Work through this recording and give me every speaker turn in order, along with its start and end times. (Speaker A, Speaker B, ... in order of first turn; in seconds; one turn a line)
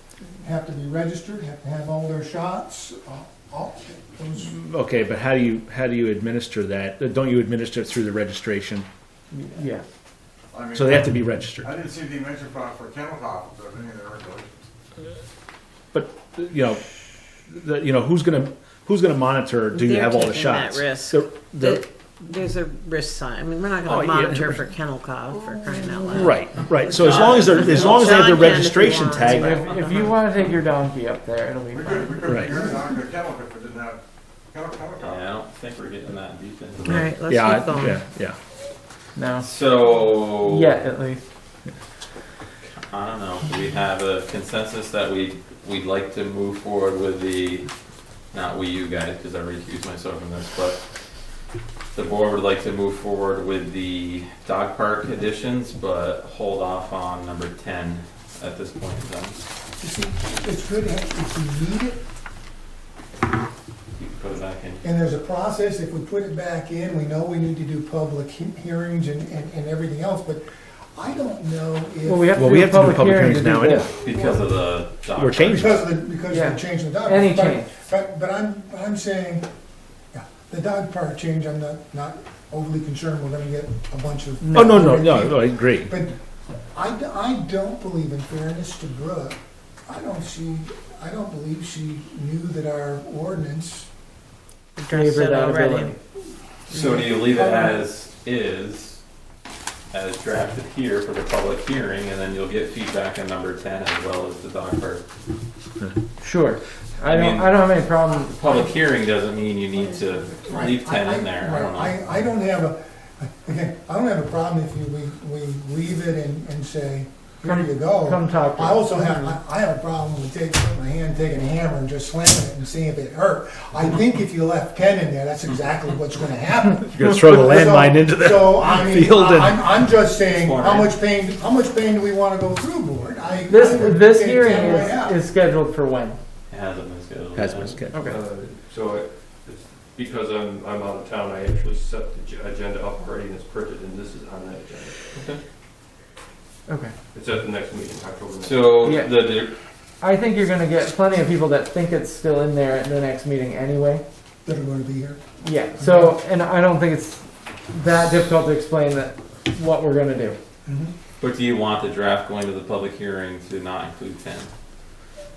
Speaker A: 0.4-4.5
Speaker B: 4.4-8.8
Speaker C: 9.3-9.8
Speaker D: 10.5-14.5
Speaker B: 10.7-11.7
Speaker B: 15.9-16.8
Speaker B: 17.5-21.8
Speaker E: 19.7-30.2
Speaker B: 23.8-24.6
Speaker B: 26.1-29.7
Speaker F: 26.9-28.2
Speaker C: 29.3-32.1
Speaker D: 31.7-35.3
Speaker B: 32.3-32.6
Speaker F: 35.0-37.1
Speaker E: 36.8-38.0
Speaker B: 37.3-38.4
Speaker C: 39.1-39.5
Speaker F: 39.4-40.7
Speaker C: 40.4-41.2
Speaker F: 42.9-47.7
Speaker F: 48.3-50.8
Speaker F: 51.9-59.4
Speaker A: 59.8-62.0
Speaker F: 64.0-64.8
Speaker A: 64.8-70.4
Speaker A: 71.0-73.3
Speaker C: 72.0-73.9
Speaker B: 72.3-73.9
Speaker A: 73.9-74.5
Speaker F: 74.0-75.7
Speaker B: 75.2-75.7
Speaker A: 75.5-79.5
Speaker C: 76.3-77.7
Speaker A: 80.1-86.2
Speaker C: 84.4-85.0
Speaker B: 84.5-86.0
Speaker A: 86.7-93.9
Speaker E: 94.8-95.9
Speaker C: 94.9-96.0
Speaker F: 96.7-99.0
Speaker C: 96.7-97.4
Speaker F: 99.9-105.0
Speaker C: 106.2-108.3
Speaker F: 107.0-107.6
Speaker F: 108.1-112.0
Speaker A: 108.2-109.0
Speaker A: 109.7-135.2
Speaker C: 117.4-119.4
Speaker B: 126.8-129.6
Speaker F: 130.2-131.0
Speaker C: 133.5-136.2
Speaker F: 136.5-137.8
Speaker B: 137.3-138.0
Speaker C: 137.9-138.2
Speaker G: 138.0-145.0
Speaker F: 145.1-145.4
Speaker C: 146.7-146.9
Speaker G: 147.1-149.0
Speaker F: 148.4-149.5
Speaker C: 148.8-149.2
Speaker C: 150.0-154.0
Speaker A: 154.4-155.2
Speaker C: 155.4-160.4
Speaker A: 155.8-156.2
Speaker A: 160.7-160.9
Speaker F: 161.2-164.5